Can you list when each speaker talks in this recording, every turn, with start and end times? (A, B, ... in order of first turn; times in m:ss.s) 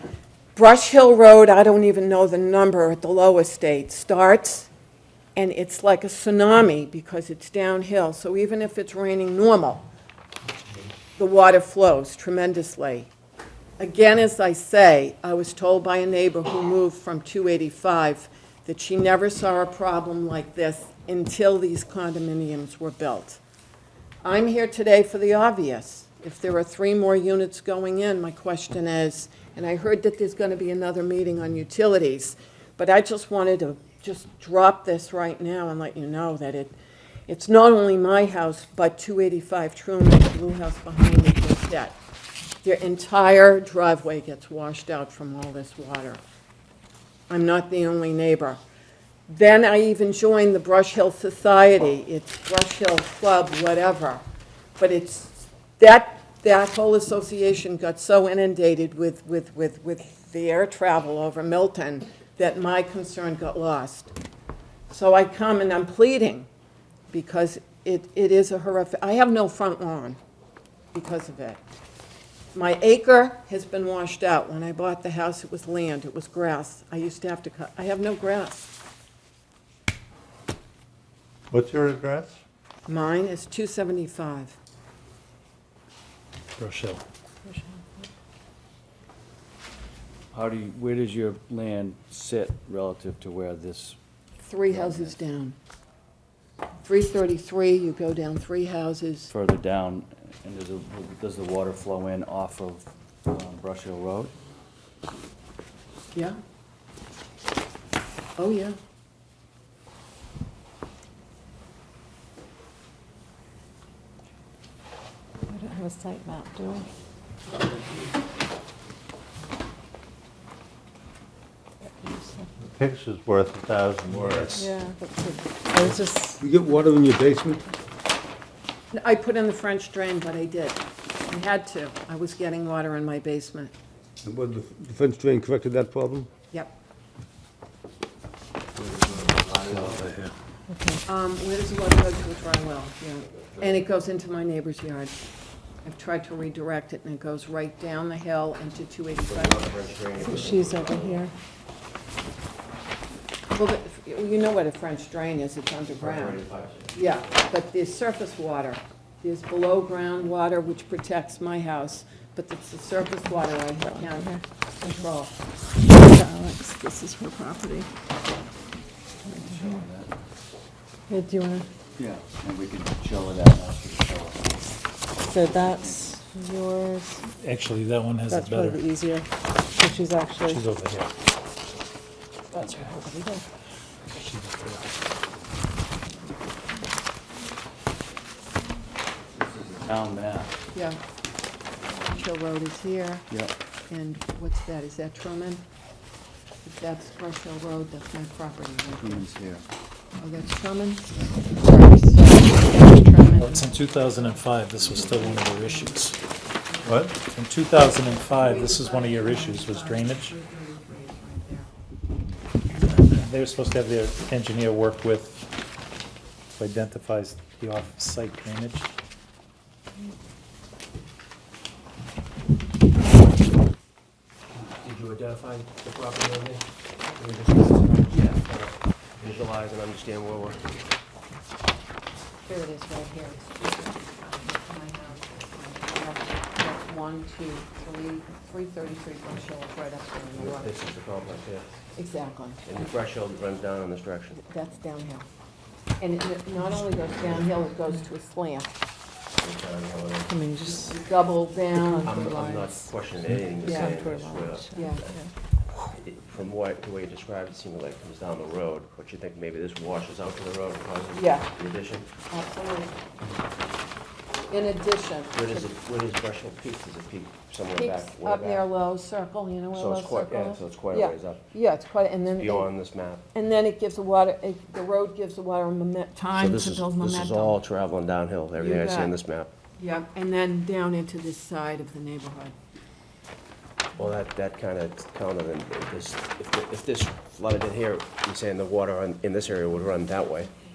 0:00.5-0:04.7 A
0:05.3-0:09.9 A
0:11.2-0:13.1 A
0:13.8-0:23.4 A
0:24.2-0:36.7 A
0:37.3-0:42.0 A
0:42.6-0:46.2 A
0:47.3-0:48.6 A
0:49.3-0:54.2 A
0:54.8-1:04.1 A
1:04.9-1:06.5 A
1:07.1-1:10.2 A
1:10.9-1:11.6 A
1:12.5-1:18.7 A
1:21.5-1:22.4 B
1:22.9-1:24.6 A
1:26.6-1:27.0 C
1:27.5-1:27.8 D
1:30.3-1:34.0 E
1:34.4-1:35.6 A
1:34.6-1:35.1 E
1:36.8-1:39.3 A
1:39.3-1:44.3 E
1:48.4-1:48.8 A
1:55.5-1:56.8 D
2:02.0-2:02.5 D
2:02.6-2:04.7 B
2:04.5-2:06.4 D
2:06.4-2:07.6 F
2:08.9-2:13.7 A
2:14.2-2:16.3 F
2:18.8-2:20.2 G
2:20.7-2:21.0 D
2:21.0-2:25.1 A
2:25.8-2:30.5 A
2:29.2-2:31.2 G
2:30.2-2:31.3 D
2:33.5-2:36.4 A
2:35.9-2:37.0 G
2:36.9-2:45.3 A
2:43.9-2:44.4 D
2:45.9-2:47.9 D
2:49.3-2:50.1 E
2:51.1-2:51.7 D
2:52.0-2:54.6 E
2:55.2-2:56.2 E
2:55.2-2:57.2 D
2:57.4-2:58.9 C
2:58.3-3:00.6 D
3:00.4-3:01.1 C
3:02.5-3:03.4 D
3:04.1-3:05.1 C
3:09.4-3:10.5 E
3:10.7-3:11.0 A
3:12.0-3:13.3 A
3:13.9-3:15.6 A
3:16.6-3:19.2 A
3:18.9-3:19.6 E
3:20.2-3:26.0 A
3:23.4-3:26.2 C
3:26.7-3:27.1 A
3:26.8-3:27.1 B
3:27.2-3:30.3 C
3:28.2-3:31.7 A
3:32.8-3:35.5 C
3:36.5-3:38.9 C
3:44.5-3:50.7 G
3:52.4-4:00.7 A
4:00.3-4:01.8 G
4:01.9-4:02.8 A
4:02.6-4:04.4 G
4:04.4-4:05.2 A
4:06.0-4:08.7 A
4:09.4-4:10.3 G
4:10.3-4:11.0 D
4:10.6-4:12.3 A
4:11.7-4:12.9 D
4:12.0-4:15.2 G
4:13.6-4:14.0 A
4:13.6-4:15.3 D
4:14.7-4:15.0 A
4:15.8-4:22.1 G
4:21.1-4:21.5 A
4:22.3-4:23.0 A
4:24.5-4:25.7 A
4:25.3-4:28.7 G
4:27.8-4:32.7 A
4:29.7-4:31.4 G
4:32.4-4:33.2 G
4:33.3-4:37.6 A
4:36.4-4:39.5 G
4:38.6-4:39.1 A
4:39.8-4:42.5 A
4:44.0-4:50.5 G